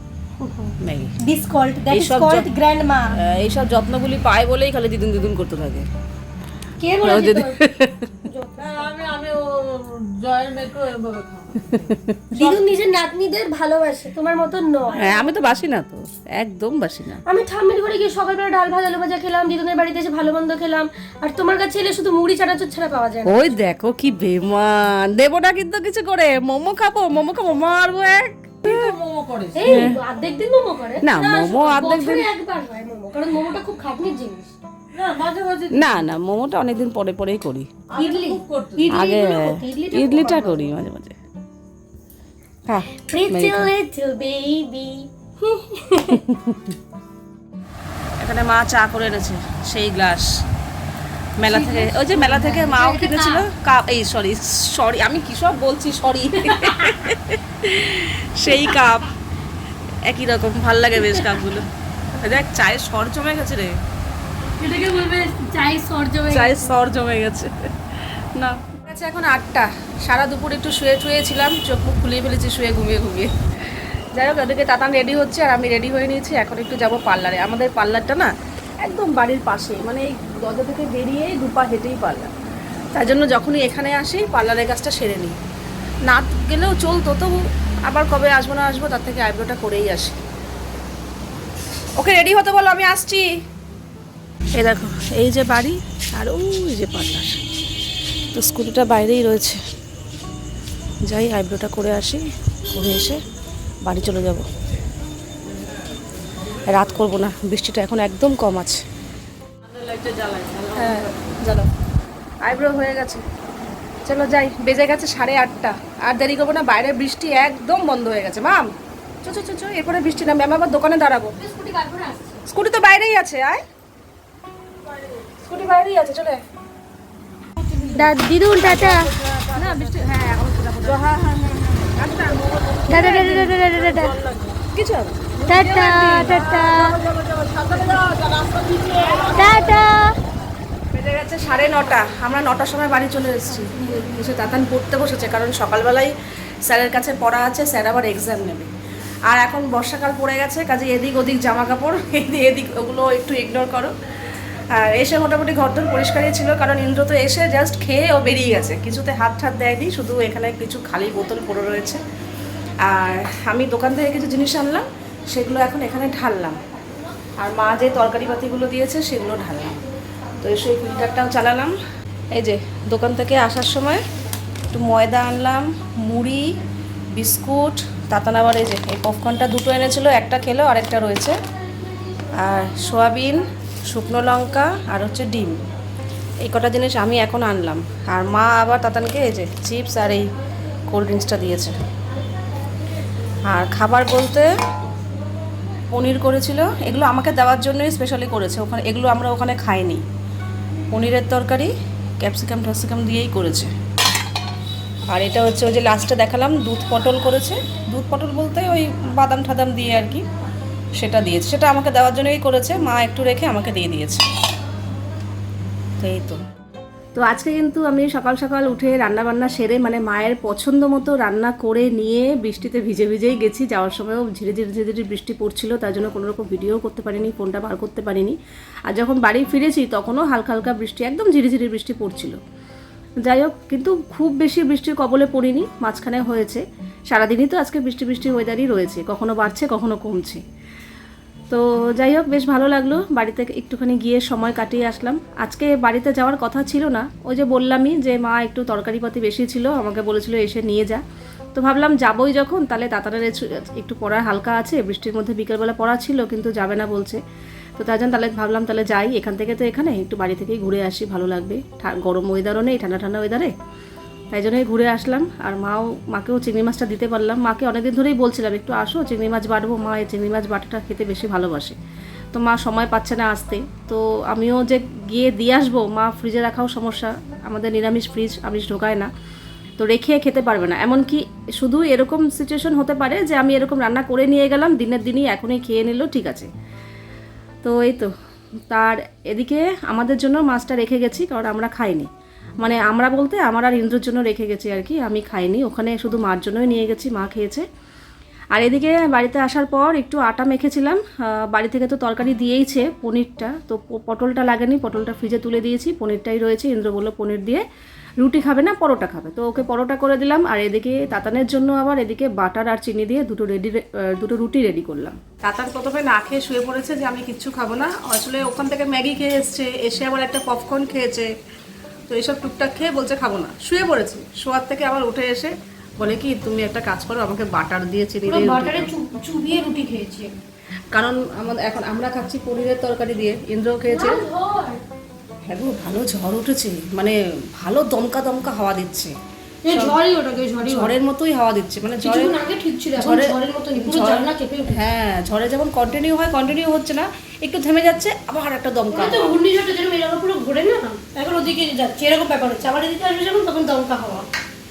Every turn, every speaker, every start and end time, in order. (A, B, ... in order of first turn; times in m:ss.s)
0:00.8-0:01.1 A
0:01.2-0:03.1 B
0:01.9-0:02.5 A
0:03.1-0:05.9 A
0:06.8-0:07.6 B
0:07.0-0:08.1 A
0:08.2-0:08.9 B
0:08.6-0:12.7 C
0:11.7-0:12.2 A
0:12.3-0:15.3 B
0:15.0-0:17.2 A
0:17.2-0:23.5 B
0:23.2-0:28.9 A
0:28.6-0:29.8 C
0:29.5-0:34.5 B
0:29.6-0:30.0 A
0:31.0-0:32.3 A
0:34.9-0:35.9 C
0:35.7-0:37.7 A
0:37.9-0:38.9 C
0:37.9-0:40.7 B
0:38.9-0:41.1 A
0:42.7-0:43.7 A
0:43.1-0:46.2 B
0:46.1-0:46.6 A
0:48.2-0:50.3 A
0:51.4-0:59.1 A
0:51.5-0:53.4 B
0:56.5-0:57.0 B
1:00.0-1:03.7 A
1:01.0-1:01.2 B
1:04.6-1:06.7 B
1:06.3-1:07.7 A
1:08.4-1:22.3 A
1:23.0-1:25.4 A
1:26.1-1:30.2 A
1:32.0-1:33.2 A
1:34.6-1:37.4 A
1:38.3-1:39.6 A
1:41.1-1:43.2 A
1:43.8-1:44.4 A
1:46.7-1:48.8 A
1:49.7-1:51.2 C
1:50.8-1:51.7 A
1:52.4-1:53.2 A
1:54.0-1:58.7 A
1:59.2-2:01.4 A
2:01.4-2:02.4 B
2:02.5-2:03.6 A
2:04.9-2:05.3 C
2:05.4-2:06.4 A
2:07.6-2:10.0 C
2:07.9-2:09.1 B
2:09.5-2:11.1 A
2:10.8-2:14.6 C
2:12.0-2:12.4 A
2:12.9-2:14.2 B
2:13.1-2:13.5 A
2:14.7-2:15.4 A
2:15.4-2:19.9 C
2:15.5-2:17.0 B
2:16.0-2:16.4 A
2:17.5-2:18.1 A
2:19.3-2:20.1 B
2:20.9-2:26.1 A
2:23.6-2:24.0 B
2:26.6-2:28.7 A
2:29.3-2:33.9 A
2:34.7-2:42.0 A
2:42.8-2:46.6 A
2:47.4-2:49.8 A
2:50.4-2:51.8 A
2:52.3-2:54.0 A
2:54.7-2:56.5 A
2:57.1-3:01.4 A
3:02.4-3:05.6 A
3:06.4-3:10.3 A
3:10.9-3:11.8 A
3:13.5-3:14.5 A
3:15.9-3:20.0 A
3:20.9-3:23.7 A
3:25.1-3:30.2 A
3:31.0-3:34.2 A
3:36.0-3:36.4 A
3:37.1-3:48.4 A
3:48.9-3:52.4 A
3:53.2-4:00.4 A
4:01.5-4:11.0 A
4:11.5-4:17.2 A
4:17.8-4:23.5 A
4:24.3-4:31.8 A
4:32.3-4:39.1 A
4:39.8-4:46.5 A
4:47.6-4:48.1 A
4:48.7-4:52.1 A
4:52.6-4:57.6 A
4:58.5-5:07.6 A
5:08.2-5:21.3 A
5:22.1-5:28.9 A
5:28.2-5:30.3 B
5:30.9-5:34.2 A
5:33.9-5:34.8 B
5:35.5-5:39.1 A
5:39.6-5:41.0 B
5:39.7-5:40.0 A
5:40.6-5:42.4 A
5:42.0-5:44.8 B
5:43.0-5:49.3 A
5:48.9-5:54.3 B